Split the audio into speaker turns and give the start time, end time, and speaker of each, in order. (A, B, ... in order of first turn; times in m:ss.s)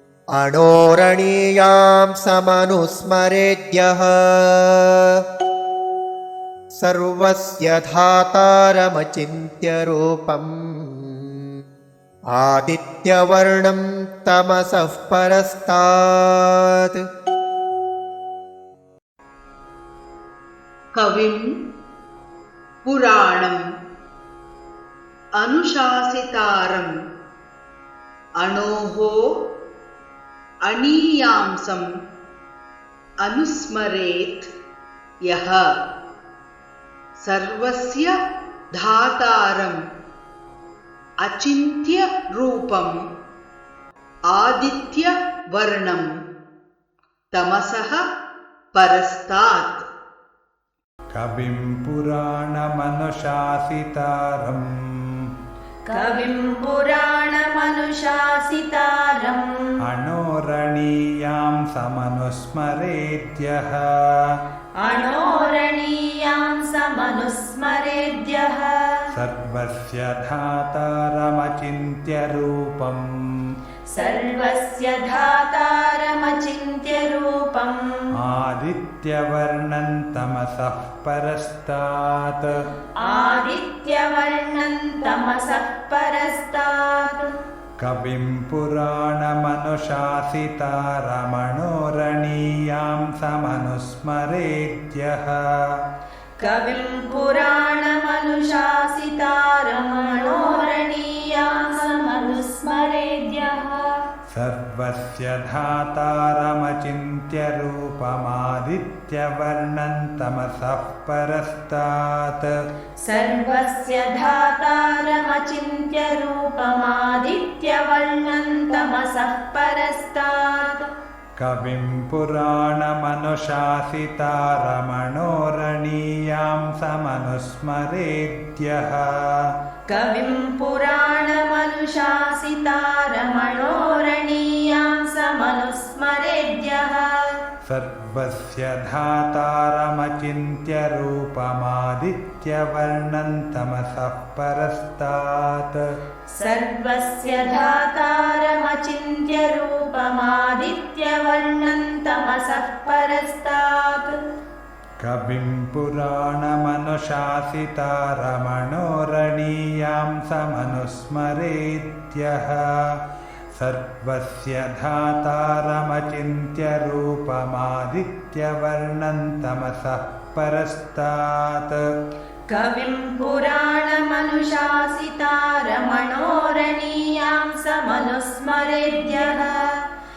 0:00.4-0:05.0 A
0:06.8-0:11.4 A
0:12.3-0:17.0 A
0:21.0-0:21.5 B
0:22.8-0:23.6 B
0:25.4-0:26.9 B
0:28.4-0:29.1 B
0:30.7-0:31.9 B
0:33.2-0:34.5 B
0:35.3-0:35.6 B
0:37.2-0:38.1 B
0:38.7-0:39.8 B
0:41.2-0:42.9 B
0:44.3-0:46.1 B
0:47.3-0:48.0 B
0:48.7-0:49.8 B
0:51.1-0:54.6 C
0:55.8-0:59.5 D
0:59.8-1:04.4 C
1:04.8-1:09.0 D
1:09.1-1:13.5 C
1:13.9-1:17.9 D
1:18.2-1:22.5 C
1:23.0-1:27.3 D
1:27.8-1:35.4 C
1:36.4-1:44.0 D
1:44.3-1:52.5 C
1:53.0-2:00.9 D
2:01.4-2:09.5 C
2:09.9-2:17.3 D
2:17.6-2:25.8 C
2:26.3-2:34.2 D
2:35.0-2:42.9 C
2:43.6-2:51.8 C
2:52.5-2:59.8 D